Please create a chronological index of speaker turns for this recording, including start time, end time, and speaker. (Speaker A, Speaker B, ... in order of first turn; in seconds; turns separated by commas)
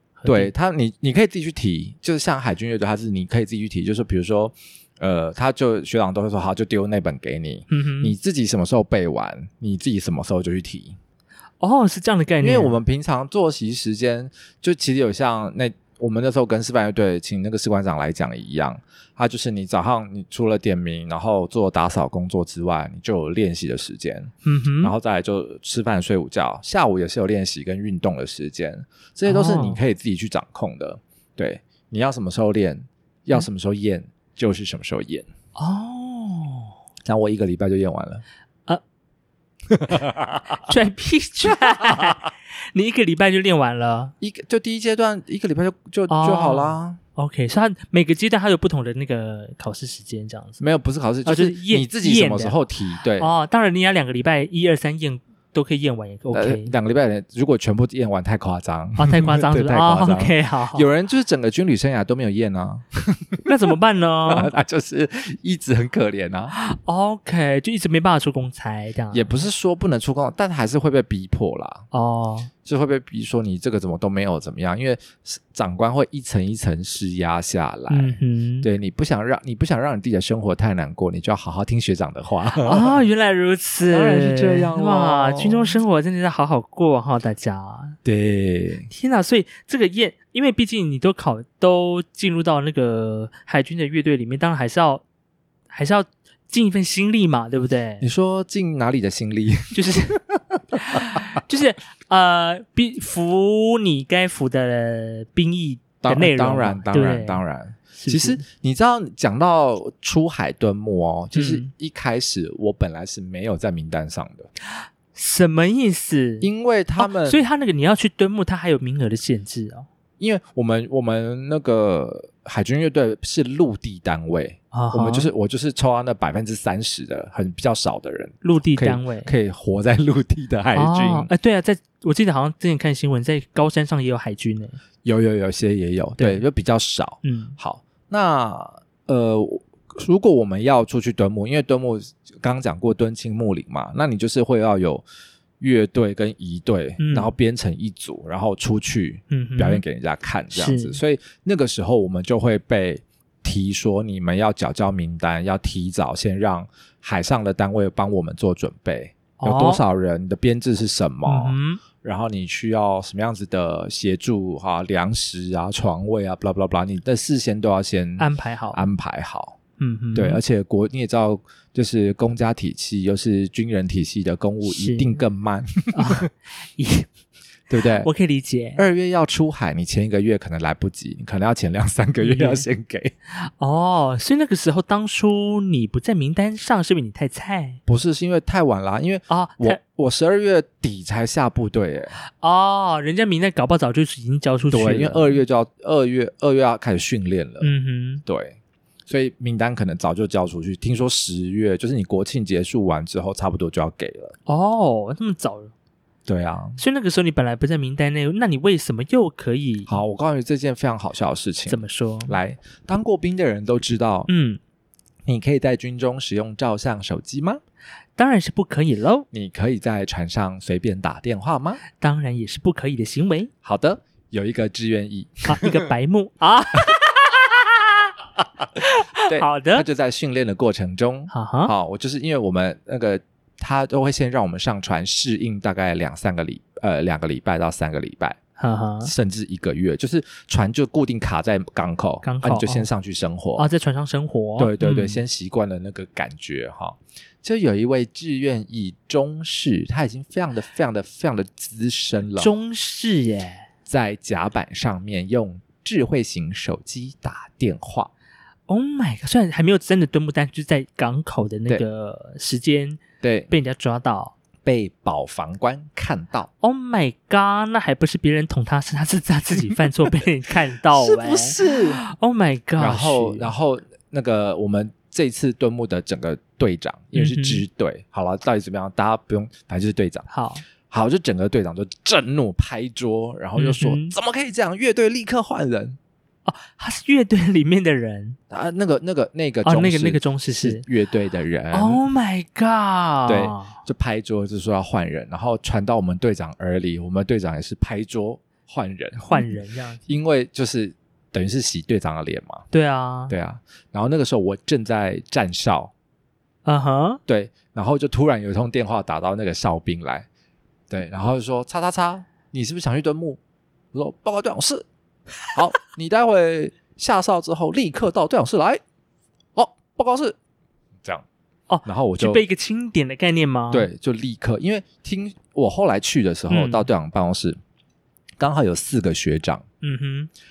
Speaker A: 0.2-0.5, Speaker B: 0.2-10.9, Speaker A: 7.7-8.1, Speaker A: 11.6-12.8, Speaker B: 12.4-35.2, Speaker A: 24.4-24.9, Speaker A: 29.2-29.8, Speaker A: 35.5-36.7, Speaker B: 37.0-38.2, Speaker B: 39.7-40.6, Speaker A: 40.6-44.1, Speaker B: 44.2-47.0, Speaker A: 46.1-50.6, Speaker B: 50.6-53.3, Speaker A: 51.2-52.6, Speaker A: 53.2-56.7, Speaker B: 56.3-63.5, Speaker A: 59.0-60.9, Speaker A: 63.4-64.5, Speaker B: 64.3-66.5, Speaker A: 66.5-69.4, Speaker B: 69.1-71.8, Speaker A: 71.9-72.5, Speaker B: 72.6-83.0, Speaker A: 77.9-78.7, Speaker A: 82.5-88.0, Speaker B: 83.8-85.8, Speaker B: 88.0-88.9, Speaker A: 88.9-95.0, Speaker A: 95.7-98.1, Speaker B: 98.0-101.4, Speaker A: 99.7-100.2, Speaker A: 100.7-107.4, Speaker B: 106.0-114.5, Speaker A: 107.9-108.4, Speaker A: 111.3-111.7, Speaker A: 114.7-119.9, Speaker B: 116.4-117.4, Speaker B: 120.2-131.3, Speaker A: 124.7-125.3, Speaker A: 128.4-129.3, Speaker A: 130.7-134.8, Speaker B: 135.0-145.0, Speaker A: 136.2-136.4, Speaker A: 137.2-137.6, Speaker B: 145.6-169.6, Speaker A: 147.0-147.3, Speaker A: 149.3-149.8, Speaker A: 150.5-151.0, Speaker A: 159.4-159.8, Speaker A: 161.2-161.8, Speaker A: 168.2-168.9, Speaker A: 169.8-170.4, Speaker B: 170.1-176.3, Speaker A: 174.6-175.2, Speaker A: 175.9-177.1, Speaker B: 177.7-178.1, Speaker A: 178.0-178.8, Speaker B: 178.8-183.1, Speaker A: 182.2-182.7, Speaker A: 183.3-187.8, Speaker B: 187.9-192.2, Speaker A: 189.3-189.8, Speaker A: 192.2-195.4, Speaker B: 194.7-197.7, Speaker A: 197.6-198.2, Speaker B: 198.2-198.6, Speaker B: 199.1-204.3, Speaker A: 204.4-205.7, Speaker B: 206.2-206.8, Speaker A: 206.8-209.9, Speaker B: 209.9-214.3, Speaker A: 211.7-212.4, Speaker A: 214.3-214.6, Speaker B: 215.2-217.6, Speaker A: 218.2-219.3, Speaker B: 219.3-221.8, Speaker A: 222.0-223.5, Speaker B: 223.6-225.7, Speaker A: 225.5-228.1, Speaker A: 228.8-229.8, Speaker B: 229.2-238.4, Speaker A: 231.3-231.7, Speaker A: 238.6-239.1, Speaker B: 239.0-243.7, Speaker A: 242.2-242.9, Speaker A: 243.6-245.2, Speaker B: 244.6-252.5, Speaker A: 252.4-253.7, Speaker B: 253.9-258.1, Speaker A: 258.7-264.3, Speaker B: 263.2-263.5, Speaker B: 264.6-266.5, Speaker A: 266.6-273.5, Speaker B: 270.9-272.0, Speaker B: 272.8-280.3, Speaker A: 277.1-277.6, Speaker A: 280.3-280.6, Speaker B: 280.9-286.0, Speaker A: 283.6-284.1, Speaker A: 286.4-288.4, Speaker B: 288.5-292.0, Speaker A: 289.6-290.9, Speaker A: 291.7-293.8, Speaker B: 293.2-302.6, Speaker A: 299.2-300.0, Speaker A: 302.7-303.3, Speaker B: 303.3-305.9, Speaker A: 306.6-307.2, Speaker B: 307.3-310.3, Speaker B: 310.9-313.4, Speaker B: 313.9-314.9, Speaker B: 315.5-318.8, Speaker B: 319.5-320.4, Speaker A: 321.7-323.9, Speaker B: 321.8-322.4, Speaker B: 323.7-327.6, Speaker A: 326.5-326.9, Speaker B: 328.4-329.6, Speaker A: 329.8-330.3